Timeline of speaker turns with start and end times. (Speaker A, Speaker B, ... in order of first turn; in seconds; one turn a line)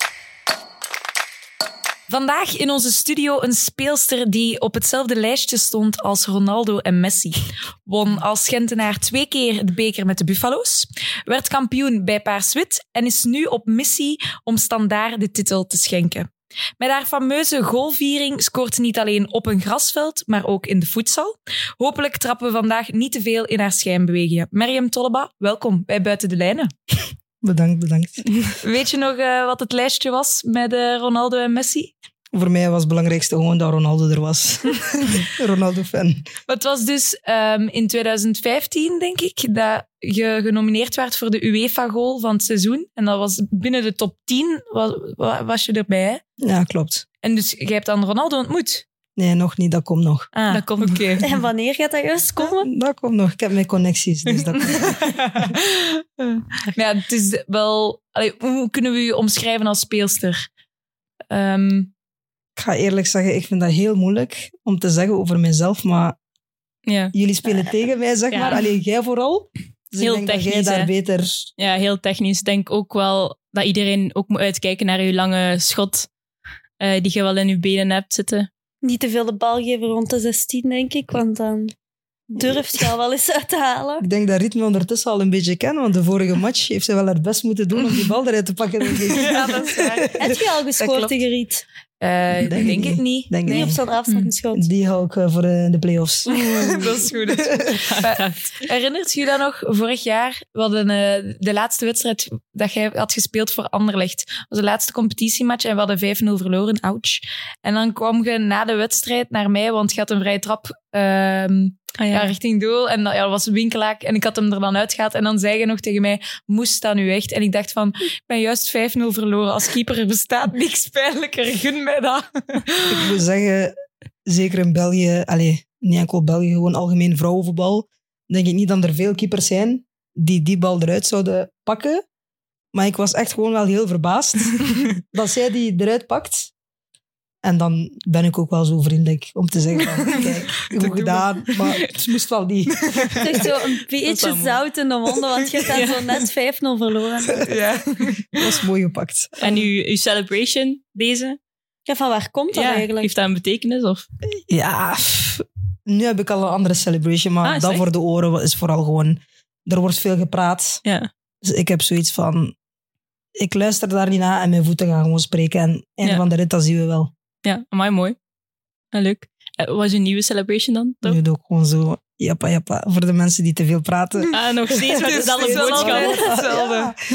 Speaker A: 2.1-26.7
Speaker B: 27.4-28.3
Speaker A: 28.6-31.9
Speaker B: 32.3-36.3
Speaker A: 36.5-46.2
Speaker B: 46.4-47.0
Speaker A: 47.2-48.8
Speaker B: 49.2-50.3
Speaker A: 50.3-51.3
Speaker C: 50.5-51.2
Speaker D: 51.2-52.7
Speaker B: 52.4-55.5
Speaker A: 54.6-60.5
Speaker A: 61.3-61.9
Speaker B: 62.5-66.2
Speaker C: 66.9-67.1
Speaker B: 67.1-71.5
Speaker C: 68.3-68.6
Speaker C: 70.0-70.9
Speaker C: 71.6-76.1
Speaker C: 76.8-78.5
Speaker D: 78.8-81.7
Speaker B: 82.3-82.6
Speaker D: 82.3-84.0
Speaker B: 84.0-90.4
Speaker A: 89.1-91.2
Speaker D: 90.2-91.6
Speaker A: 92.0-93.7
Speaker B: 92.4-93.8
Speaker D: 93.4-94.7
Speaker B: 94.5-97.8
Speaker A: 96.3-123.2
Speaker C: 96.7-97.1
Speaker C: 97.7-98.7
Speaker C: 112.0-112.3
Speaker B: 122.9-123.7
Speaker B: 124.2-132.0
Speaker B: 132.7-136.5
Speaker B: 137.4-143.5
Speaker A: 139.8-141.6
Speaker A: 142.7-143.5
Speaker D: 143.2-147.5
Speaker B: 144.0-144.6
Speaker C: 145.7-146.0
Speaker B: 147.3-147.5
Speaker A: 147.4-148.5
Speaker B: 148.3-149.4
Speaker C: 149.4-151.4
Speaker D: 151.9-153.1
Speaker C: 152.5-154.1
Speaker B: 154.5-160.8
Speaker C: 157.4-157.8
Speaker C: 160.8-161.1
Speaker B: 161.4-162.5
Speaker B: 163.3-167.1
Speaker C: 167.4-168.2
Speaker C: 168.9-171.2
Speaker B: 171.0-177.0
Speaker C: 174.3-176.2
Speaker A: 174.9-176.9